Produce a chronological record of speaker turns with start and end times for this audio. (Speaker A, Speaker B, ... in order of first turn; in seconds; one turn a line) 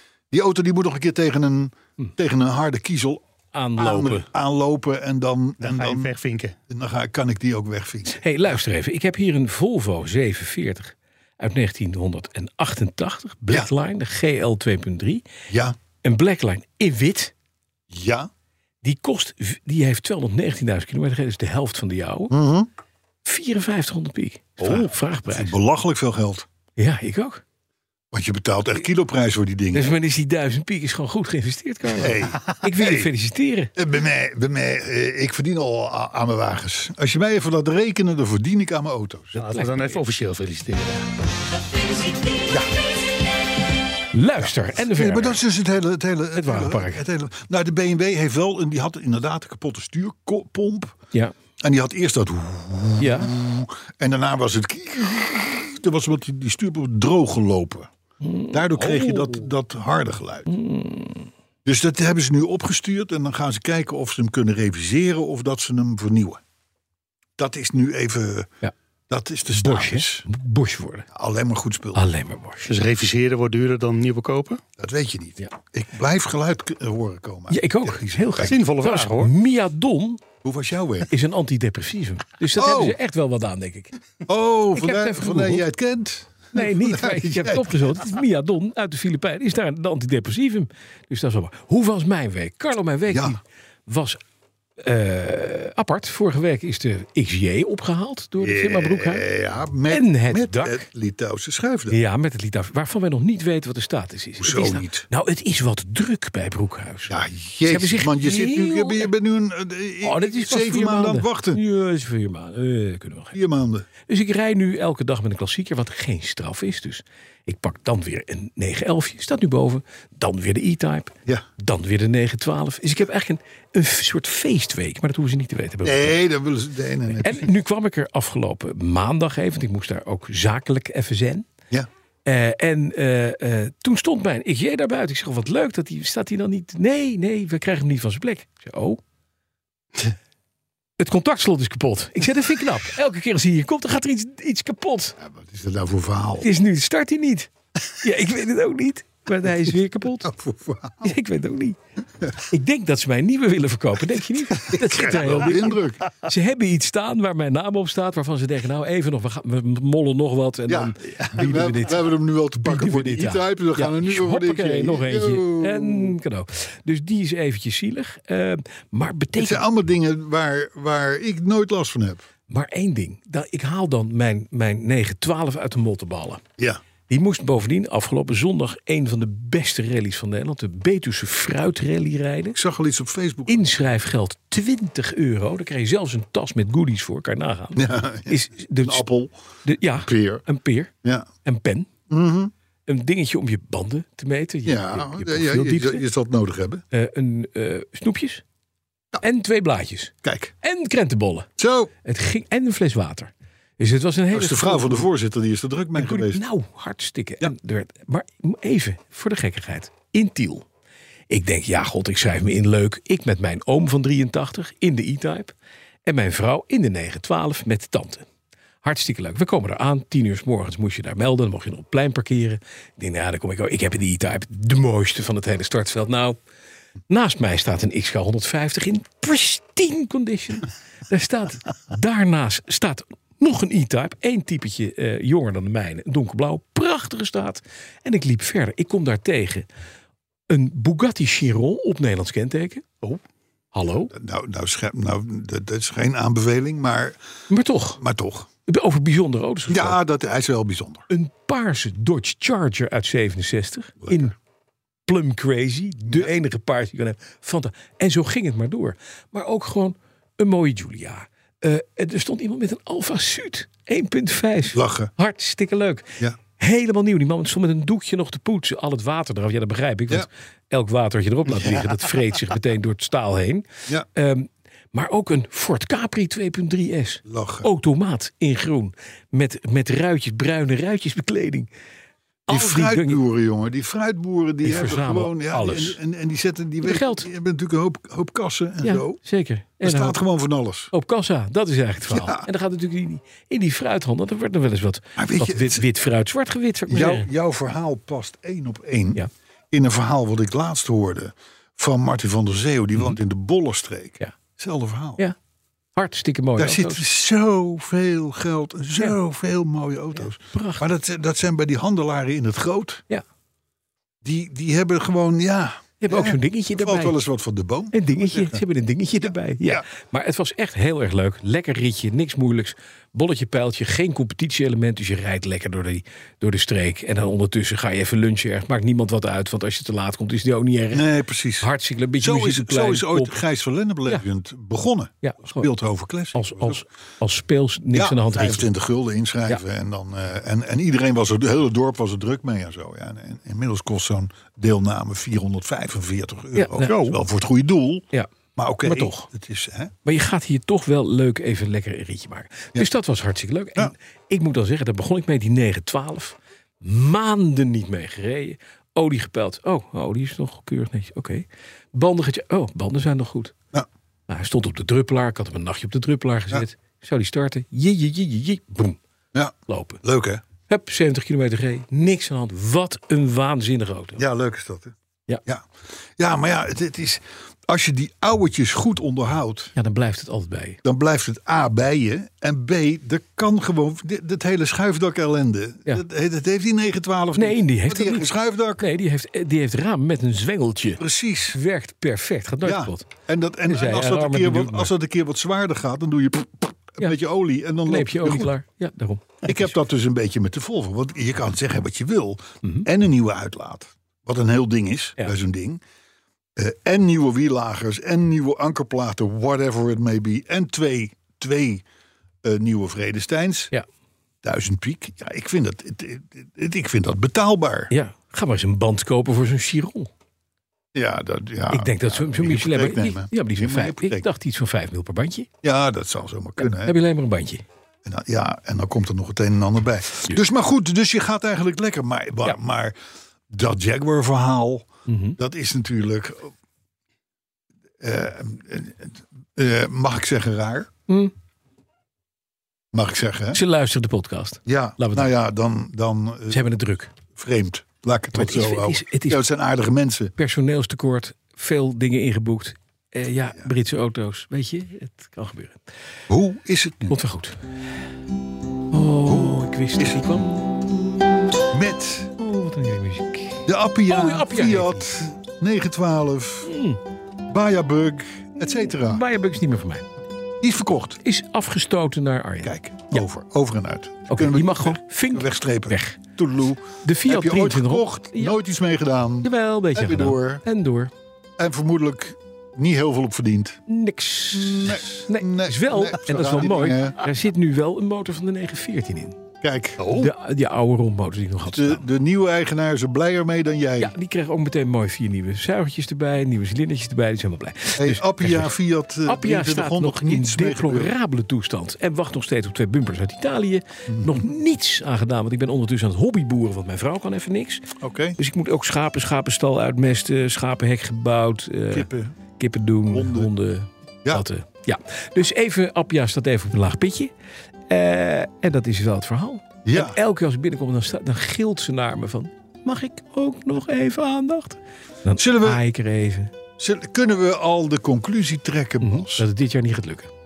Speaker A: 0.3-3.2
Speaker B: 3.5-4.3
Speaker A: 3.8-6.1
Speaker C: 5.6-6.6
Speaker A: 6.7-8.2
Speaker B: 8.1-15.2
Speaker A: 15.5-15.8
Speaker B: 16.0-17.3
Speaker A: 17.9-18.3
Speaker B: 18.8-22.3
Speaker A: 22.3-22.7
Speaker B: 23.2-25.6
Speaker A: 24.6-26.5
Speaker B: 26.8-27.4
Speaker A: 28.1-29.9
Speaker B: 29.7-33.7
Speaker A: 31.9-33.1
Speaker A: 33.8-39.4
Speaker C: 39.3-41.1
Speaker B: 39.4-40.0
Speaker B: 44.1-45.4
Speaker A: 44.4-50.9
Speaker B: 46.3-47.0
Speaker A: 51.6-57.9
Speaker B: 53.0-53.3
Speaker B: 58.2-59.1
Speaker A: 58.5-60.5
Speaker B: 60.5-61.3
Speaker A: 61.6-66.4
Speaker A: 67.4-68.5
Speaker A: 69.1-70.2
Speaker B: 69.5-71.1
Speaker A: 71.1-72.0
Speaker B: 71.9-72.7
Speaker C: 72.7-74.6
Speaker A: 74.8-78.5
Speaker B: 77.5-80.2
Speaker C: 78.4-79.3
Speaker A: 80.4-81.1
Speaker B: 81.1-83.9
Speaker A: 82.6-83.0
Speaker A: 84.3-88.0
Speaker B: 84.8-85.6
Speaker B: 86.5-94.2
Speaker A: 93.1-93.4
Speaker B: 94.8-99.3
Speaker A: 98.4-102.0
Speaker B: 99.9-100.9
Speaker B: 101.9-107.1
Speaker A: 104.4-105.1
Speaker A: 107.1-111.6
Speaker B: 107.7-109.1
Speaker B: 110.0-113.4
Speaker A: 113.3-113.9
Speaker B: 114.0-126.2
Speaker A: 125.8-127.5
Speaker B: 127.1-131.5
Speaker B: 132.2-139.0
Speaker B: 141.0-145.2
Speaker A: 145.2-146.5
Speaker B: 146.4-150.3
Speaker A: 150.2-151.1
Speaker B: 151.0-151.8
Speaker B: 152.4-169.6
Speaker A: 154.6-156.1
Speaker A: 160.7-166.1
Speaker A: 169.4-172.3
Speaker B: 172.5-176.4
Speaker B: 177.1-182.6
Speaker A: 182.5-183.7
Speaker B: 183.5-189.1
Speaker A: 187.8-189.3
Speaker B: 189.6-190.9
Speaker A: 189.9-190.4
Speaker A: 191.0-191.3
Speaker B: 191.4-191.9
Speaker A: 192.1-192.5
Speaker B: 192.9-196.0
Speaker A: 194.6-196.8
Speaker B: 196.9-198.4
Speaker B: 199.2-201.5
Speaker A: 200.2-200.5
Speaker A: 201.6-201.9
Speaker B: 202.0-205.1
Speaker A: 204.3-206.4
Speaker B: 206.0-210.7
Speaker B: 211.3-215.5
Speaker B: 216.0-218.2
Speaker B: 218.8-226.4
Speaker B: 227.1-239.7
Speaker B: 240.5-243.2
Speaker B: 243.7-244.1
Speaker A: 244.1-247.2
Speaker B: 247.5-248.0
Speaker A: 248.0-248.5
Speaker B: 248.7-250.0
Speaker A: 249.7-251.1
Speaker B: 251.1-254.3
Speaker A: 254.0-254.3
Speaker B: 255.1-281.7
Speaker A: 264.7-265.1
Speaker A: 271.5-272.0
Speaker A: 277.2-277.7
Speaker B: 282.5-283.2
Speaker A: 282.5-289.2
Speaker B: 284.6-286.0
Speaker B: 286.8-287.3
Speaker B: 288.8-290.2
Speaker A: 289.8-290.9
Speaker B: 290.9-297.3
Speaker A: 292.1-292.5
Speaker A: 295.1-295.9
Speaker A: 296.9-305.2
Speaker B: 306.0-307.0
Speaker A: 306.6-313.0
Speaker B: 310.2-310.8
Speaker A: 314.2-318.6
Speaker B: 316.0-317.2
Speaker B: 317.9-331.1
Speaker A: 319.2-319.9
Speaker A: 330.9-336.8
Speaker B: 331.6-333.4
Speaker B: 335.2-335.7
Speaker B: 336.3-338.7
Speaker A: 337.9-349.9
Speaker B: 346.5-347.1
Speaker C: 346.8-347.1
Speaker B: 348.8-349.3
Speaker B: 350.0-363.5
Speaker B: 364.3-369.0
Speaker A: 369.3-370.4
Speaker B: 369.7-370.0
Speaker B: 370.7-374.2
Speaker A: 374.2-374.9
Speaker A: 376.2-379.7
Speaker B: 379.8-380.8
Speaker A: 380.8-388.9
Speaker B: 387.4-393.1
Speaker A: 391.0-391.6
Speaker A: 392.6-398.5
Speaker B: 393.7-394.9
Speaker B: 397.9-399.7
Speaker A: 399.4-405.8
Speaker A: 406.6-411.8
Speaker A: 412.4-413.7
Speaker A: 414.4-417.9
Speaker B: 417.9-420.1
Speaker A: 420.9-424.3
Speaker B: 421.7-425.5
Speaker A: 425.6-427.0
Speaker B: 426.6-427.6
Speaker A: 428.0-433.0
Speaker A: 433.5-436.5
Speaker B: 435.1-435.4
Speaker A: 438.0-440.9
Speaker A: 442.9-443.6
Speaker B: 443.5-445.3
Speaker A: 444.6-446.6
Speaker B: 446.5-447.1
Speaker A: 447.3-450.3
Speaker B: 448.3-449.4
Speaker B: 450.4-455.8
Speaker A: 456.3-457.2
Speaker B: 457.1-457.6
Speaker B: 458.9-461.4
Speaker A: 459.3-460.3
Speaker A: 461.7-462.3
Speaker B: 462.4-465.3
Speaker A: 463.6-466.7
Speaker B: 466.6-467.0
Speaker A: 467.5-469.2
Speaker B: 468.6-470.1
Speaker A: 470.6-471.2
Speaker B: 471.2-473.2
Speaker A: 472.6-480.6
Speaker B: 474.3-476.2
Speaker B: 477.0-478.6
Speaker B: 479.4-481.1
Speaker A: 481.6-483.8
Speaker B: 483.9-489.4
Speaker A: 484.5-487.2
Speaker A: 489.6-490.1
Speaker C: 490.0-490.3
Speaker B: 490.1-492.1
Speaker A: 491.6-494.1
Speaker B: 494.0-498.7
Speaker A: 498.0-501.1
Speaker B: 499.2-507.9
Speaker A: 504.1-504.5
Speaker A: 508.0-508.4
Speaker B: 508.4-517.3
Speaker A: 511.9-512.3
Speaker A: 513.1-513.5
Speaker B: 517.9-526.5
Speaker A: 519.9-520.2
Speaker A: 525.4-525.8
Speaker A: 526.8-529.5
Speaker B: 529.0-530.3